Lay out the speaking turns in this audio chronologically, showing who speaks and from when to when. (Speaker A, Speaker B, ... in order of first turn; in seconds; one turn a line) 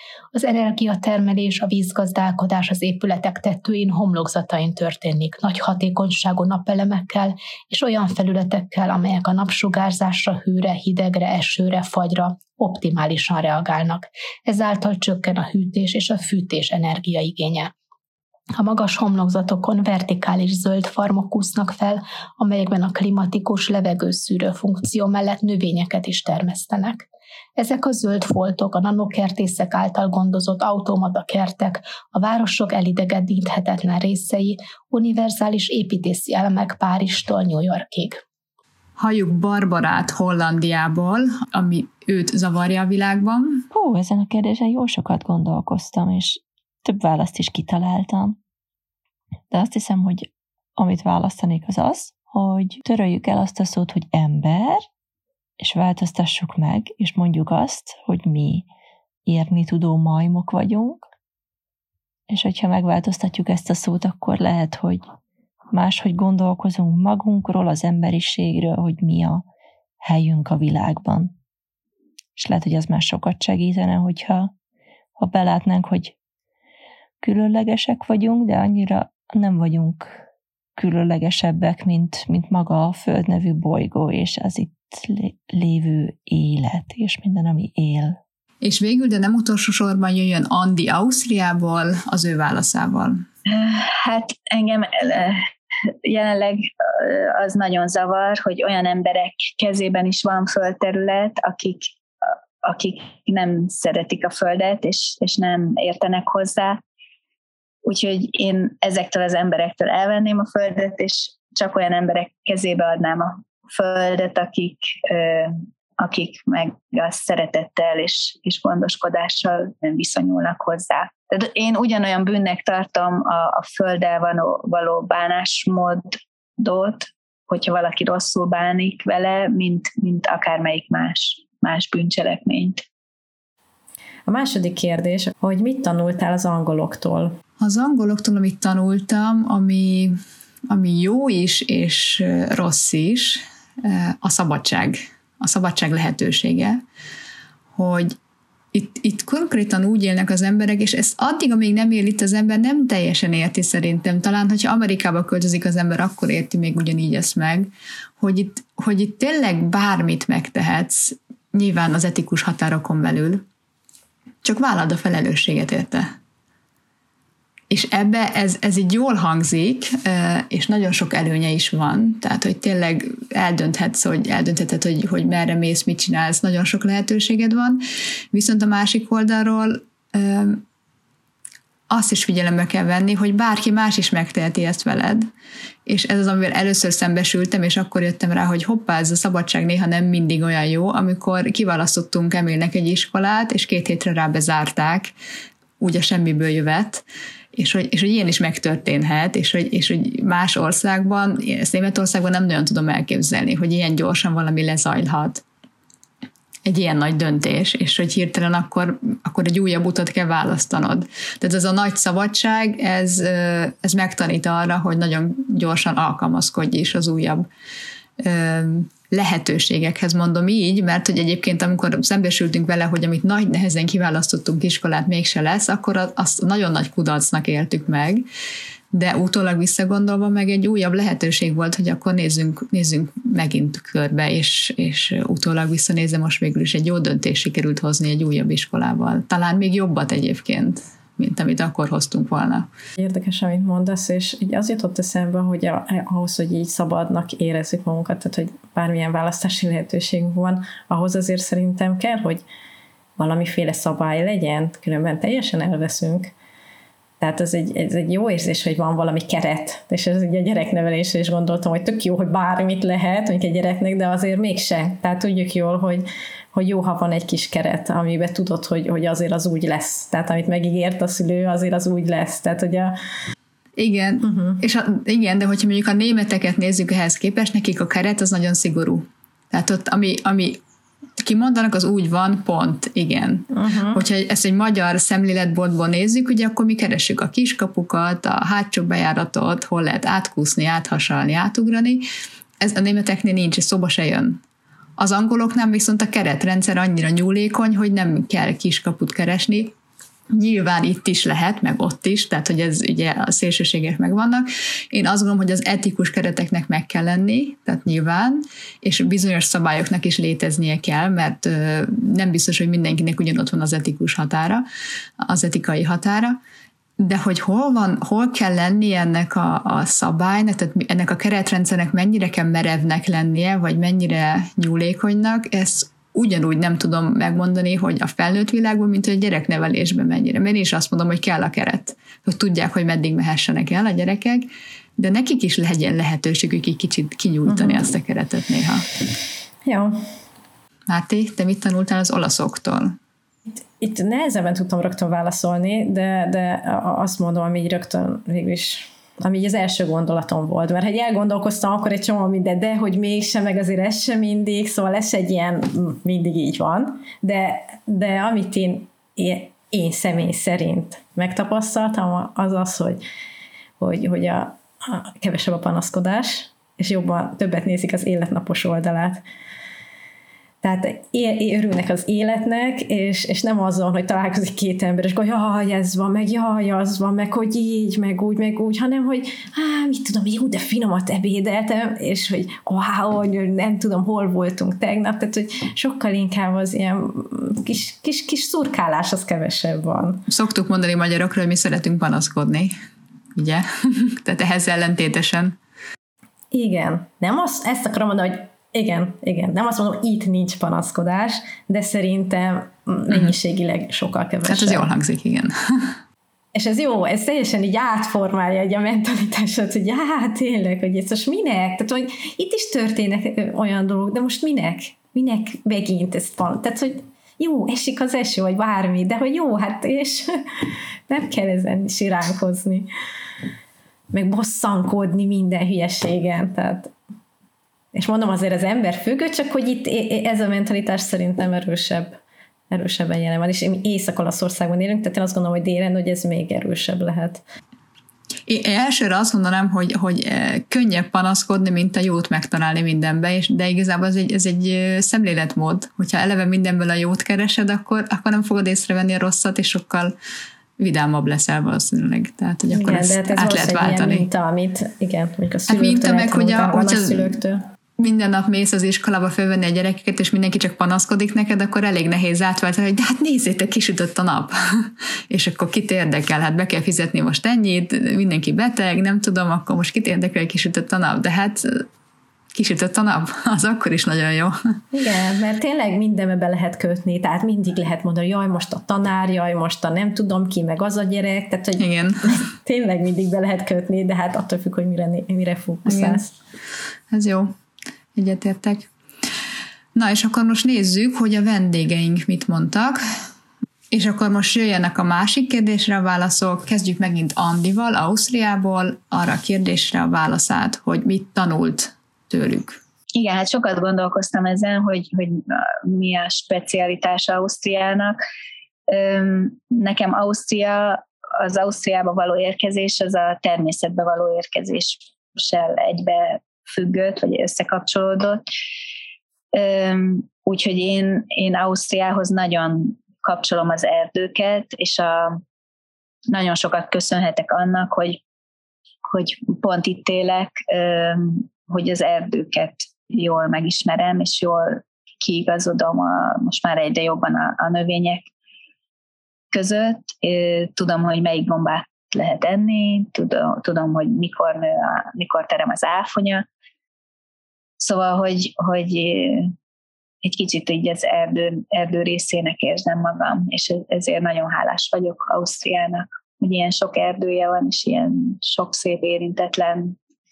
Speaker A: 0.3-17.7
Speaker A: 18.6-38.2
Speaker B: 39.0-43.6
Speaker C: 43.7-48.4
Speaker C: 49.5-54.9
Speaker C: 55.6-58.7
Speaker C: 59.3-61.1
Speaker C: 62.3-65.1
Speaker C: 65.7-69.4
Speaker C: 70.0-71.3
Speaker C: 72.4-74.5
Speaker C: 75.2-76.1
Speaker C: 77.2-80.2
Speaker C: 80.8-88.2
Speaker B: 88.6-93.2
Speaker D: 93.4-95.5
Speaker D: 96.0-101.9
Speaker D: 102.6-106.8
Speaker D: 107.8-132.8
Speaker E: 134.3-137.3
Speaker B: 137.6-140.2
Speaker B: 140.7-146.8
Speaker B: 147.7-148.2
Speaker B: 148.7-163.4
Speaker B: 164.4-166.1
Speaker B: 167.7-180.6
Speaker B: 181.9-185.3
Speaker B: 185.9-195.1
Speaker B: 195.8-197.0
Speaker B: 197.5-205.4
Speaker B: 206.7-217.4
Speaker B: 218.2-228.2
Speaker B: 228.9-242.7
Speaker E: 243.0-252.4
Speaker E: 253.2-256.3
Speaker E: 257.2-272.9
Speaker B: 273.8-280.6
Speaker E: 274.2-274.6
Speaker B: 281.2-292.1
Speaker E: 283.5-284.0
Speaker B: 292.6-294.4
Speaker B: 295.0-299.7
Speaker B: 300.3-314.6
Speaker B: 315.2-316.4
Speaker B: 317.0-338.9
Speaker E: 337.5-337.8
Speaker E: 339.6-339.9
Speaker B: 340.9-342.9
Speaker E: 343.8-363.0
Speaker E: 363.8-369.2
Speaker E: 370.6-390.2
Speaker B: 390.3-392.7
Speaker B: 393.4-395.6
Speaker E: 396.5-404.9
Speaker B: 404.4-405.9
Speaker E: 406.5-420.3
Speaker E: 421.1-422.9
Speaker E: 424.1-426.9
Speaker E: 427.9-432.2
Speaker E: 432.7-437.4
Speaker B: 438.5-450.1
Speaker B: 450.8-454.2
Speaker E: 452.7-457.6
Speaker B: 455.7-457.4
Speaker B: 458.0-471.8
Speaker B: 472.5-474.5
Speaker E: 474.9-481.8
Speaker B: 481.8-482.4
Speaker E: 482.4-486.3
Speaker B: 485.9-486.2
Speaker B: 487.1-487.5
Speaker B: 488.1-488.9
Speaker B: 489.9-493.0
Speaker B: 493.9-502.8
Speaker D: 503.1-508.2
Speaker D: 508.9-518.4
Speaker D: 519.5-525.4
Speaker D: 526.3-528.2
Speaker D: 529.0-538.3
Speaker D: 539.5-546.5
Speaker D: 547.8-549.5
Speaker D: 550.2-560.0